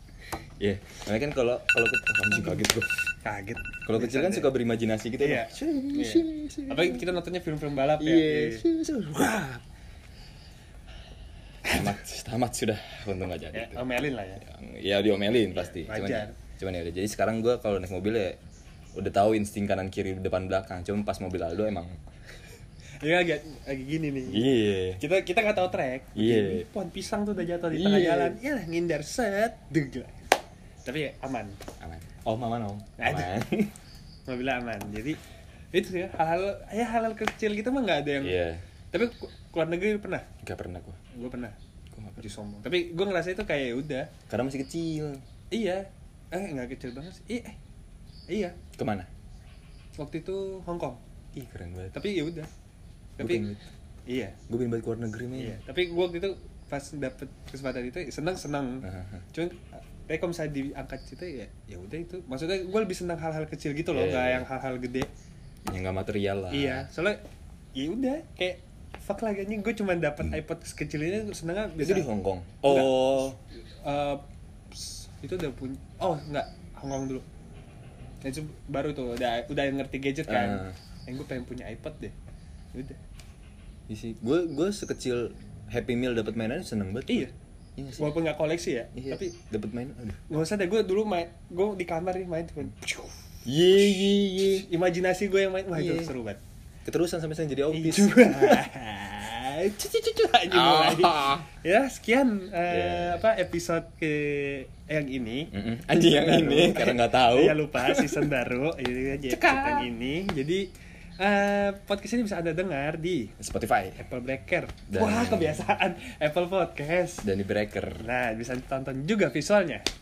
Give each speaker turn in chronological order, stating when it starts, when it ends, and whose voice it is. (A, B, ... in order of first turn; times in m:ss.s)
0:00.6-0:03.0 A
0:03.2-0:04.5 B
0:03.8-0:07.1 A
0:05.2-0:08.6 B
0:08.0-0:09.6 A
0:11.6-0:12.0 B
0:11.6-0:18.4 A
0:13.5-0:14.4 B
0:15.5-0:16.3 B
0:18.9-0:22.0 A
0:23.0-0:30.3 B
0:24.2-0:25.0 A
0:26.1-0:26.7 A
0:27.7-0:28.4 A
0:30.8-0:31.6 B
0:31.8-0:33.7 A
0:33.0-0:33.4 B
0:34.3-0:35.2 B
0:35.7-0:38.4 B
0:38.2-0:38.6 A
0:38.9-0:40.3 B
0:40.4-0:41.0 A
0:41.1-0:41.6 B
0:41.9-0:42.2 A
0:42.2-0:44.1 B
0:44.3-0:45.2 A
0:45.5-0:47.6 B
0:48.3-0:48.6 B
0:48.8-0:49.1 A
0:50.0-0:51.0 B
0:51.4-0:52.0 A
0:51.9-0:52.5 B
0:53.2-0:53.5 B
0:53.2-0:53.6 A
0:54.1-0:54.4 B
0:54.5-0:55.6 A
0:55.4-1:05.1 B
0:58.8-0:59.2 A
1:03.9-1:04.5 A
1:05.6-1:06.9 A
1:06.5-1:07.2 B
1:07.7-1:12.1 B
1:11.8-1:13.4 A
1:12.6-1:13.3 B
1:13.8-1:17.2 B
1:18.2-1:22.1 B
1:20.3-1:20.7 A
1:22.7-1:23.0 B
1:23.9-1:28.1 A
1:28.0-1:29.4 B
1:28.9-1:30.2 A
1:30.3-1:33.1 B
1:33.4-1:34.6 A
1:34.4-1:36.4 B
1:35.7-1:36.1 A
1:36.8-1:38.7 A
1:37.7-1:50.7 B
1:40.4-1:41.5 A
1:42.7-1:43.2 A
1:45.5-1:48.3 A
1:49.3-1:49.9 A
1:51.2-1:53.3 B
1:53.4-1:54.0 A
1:54.0-1:57.3 B
1:54.9-1:55.6 A
1:57.2-1:58.0 A
1:58.0-1:59.8 B